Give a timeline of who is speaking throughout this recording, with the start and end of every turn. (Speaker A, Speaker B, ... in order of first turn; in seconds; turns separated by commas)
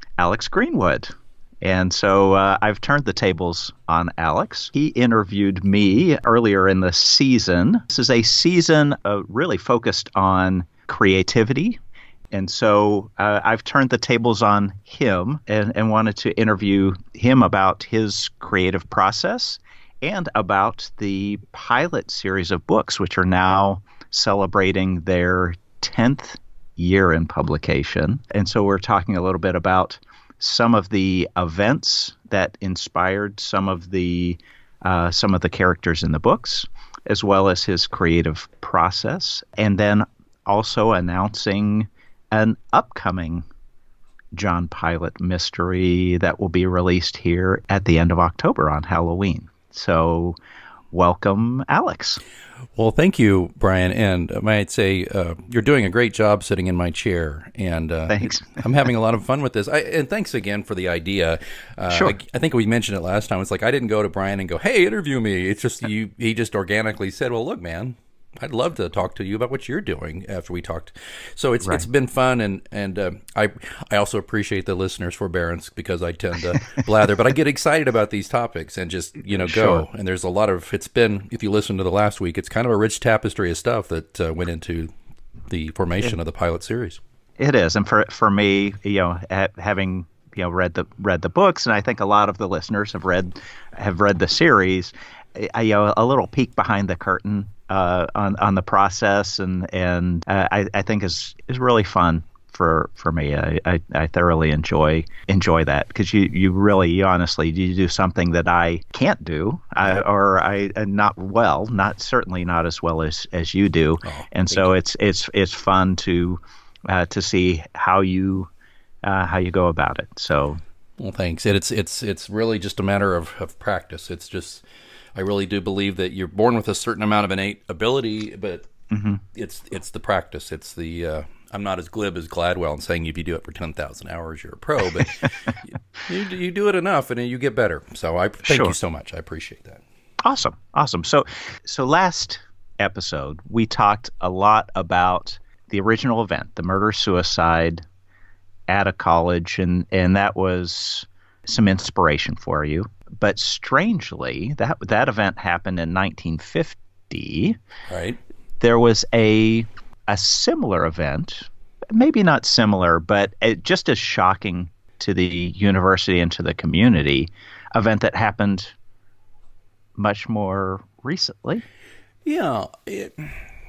Speaker A: 0.2-11.8, Speaker A: 12.3-43.5, Speaker A: 44.3-50.4, Speaker A: 50.9-52.2, Speaker B: 52.8-84.9, Speaker A: 58.1-58.6, Speaker A: 61.9-62.2, Speaker A: 79.3-79.8, Speaker B: 85.5-87.0, Speaker A: 87.4-118.5, Speaker B: 114.0-114.7, Speaker A: 119.0-120.6, Speaker B: 121.0-124.6, Speaker B: 125.2-128.7, Speaker A: 128.9-129.2, Speaker B: 129.3-139.8, Speaker A: 138.4-138.8, Speaker A: 140.2-147.8, Speaker A: 148.7-157.6, Speaker B: 157.9-158.2, Speaker A: 158.6-168.7, Speaker A: 170.0-171.6, Speaker B: 172.2-173.4